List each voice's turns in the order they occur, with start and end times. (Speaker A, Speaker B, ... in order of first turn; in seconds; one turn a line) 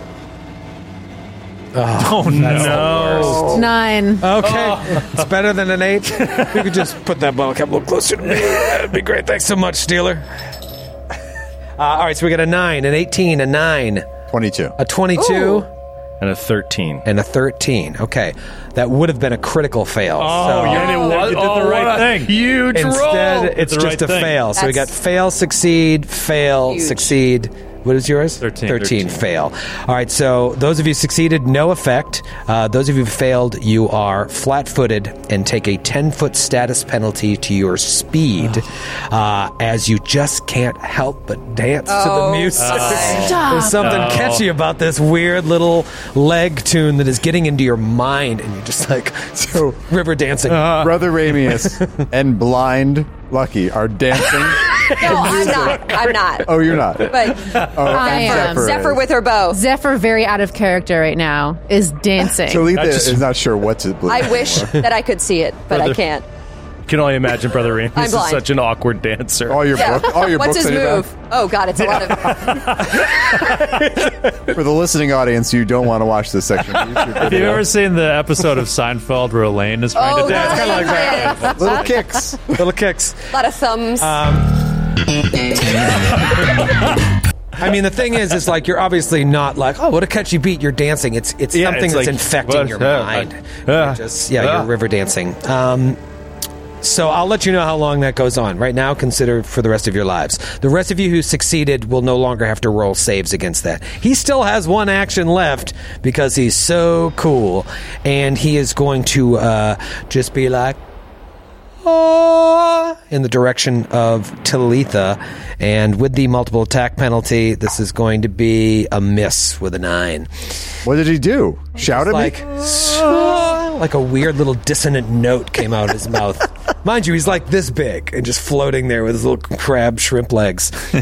Speaker A: 1.7-10.3
Speaker B: 1.9-3.5
Speaker C: 2.3-3.6
Speaker D: 3.5-4.3
Speaker C: 4.4-5.2
Speaker A: 11.8-14.1
Speaker E: 14.3-14.8
Speaker A: 14.8-15.7
Speaker F: 15.2-15.7
Speaker C: 16.2-17.0
Speaker A: 17.1-20.9
Speaker C: 20.2-23.6
Speaker B: 20.2-22.4
Speaker A: 22.7-50.9
Speaker B: 23.6-24.4
Speaker F: 24.5-24.9
Speaker F: 26.6-27.2
Speaker B: 28.4-29.2
Speaker F: 41.9-43.3
Speaker B: 42.5-44.5
Speaker D: 43.1-44.1
Speaker E: 50.6-59.1
Speaker A: 51.6-52.0
Speaker F: 55.0-56.5
Speaker F: 57.1-59.6
Speaker D: 57.9-58.7
Speaker D: 59.5-62.8
Speaker E: 62.5-64.8
Speaker F: 64.1-66.2
Speaker C: 65.7-66.0
Speaker C: 66.9-69.8
Speaker F: 68.0-68.5
Speaker E: 69.5-71.1
Speaker F: 69.7-72.8
Speaker E: 74.5-77.7
Speaker B: 77.2-81.6
Speaker F: 80.0-82.0
Speaker A: 80.3-81.2
Speaker E: 81.5-82.6
Speaker A: 82.5-83.3
Speaker F: 83.3-84.2
Speaker A: 84.0-84.6
Speaker A: 85.6-86.6
Speaker A: 87.6-96.0
Speaker C: 91.5-94.7
Speaker A: 96.8-110.8
Speaker A: 111.8-120.5
Speaker E: 120.8-122.8
Speaker A: 121.8-130.7